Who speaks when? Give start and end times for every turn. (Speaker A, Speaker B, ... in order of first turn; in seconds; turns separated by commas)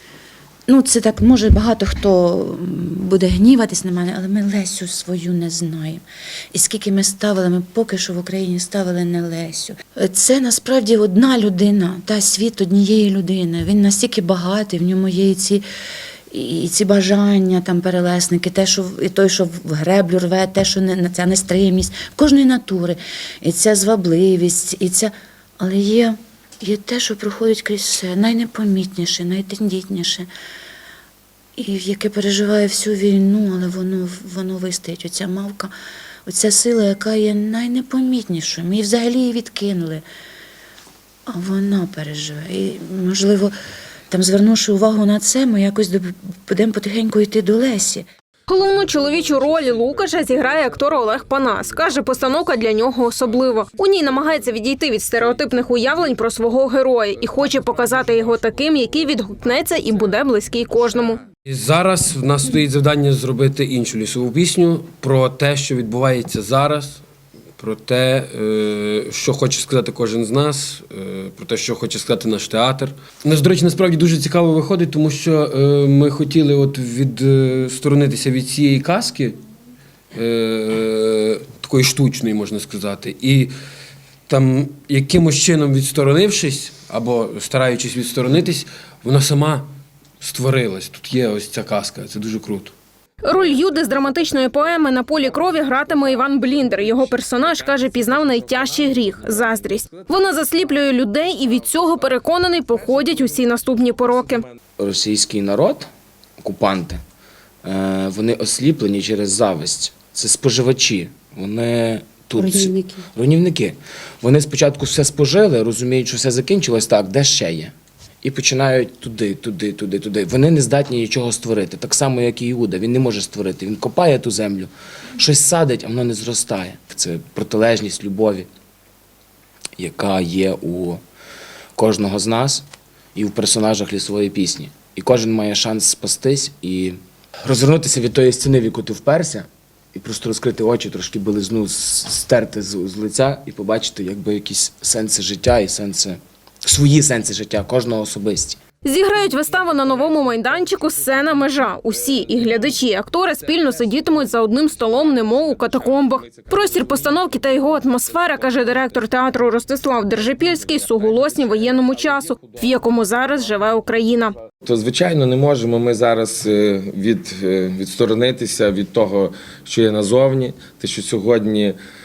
Speaker A: 0.7-15.7, Speaker A: 16.3-30.3, Speaker A: 31.6-35.7, Speaker A: 36.3-40.0, Speaker A: 41.3-43.5, Speaker A: 44.1-48.1, Speaker B: 48.5-61.2, Speaker C: 61.5-67.0, Speaker C: 67.6-79.4, Speaker C: 80.1-83.5, Speaker C: 84.3-89.7, Speaker C: 90.2-92.7, Speaker B: 93.2-104.5, Speaker D: 104.8-107.0, Speaker D: 107.6-128.5, Speaker D: 129.8-131.0, Speaker D: 131.8-148.6, Speaker B: 148.8-164.3, Speaker E: 164.6-171.8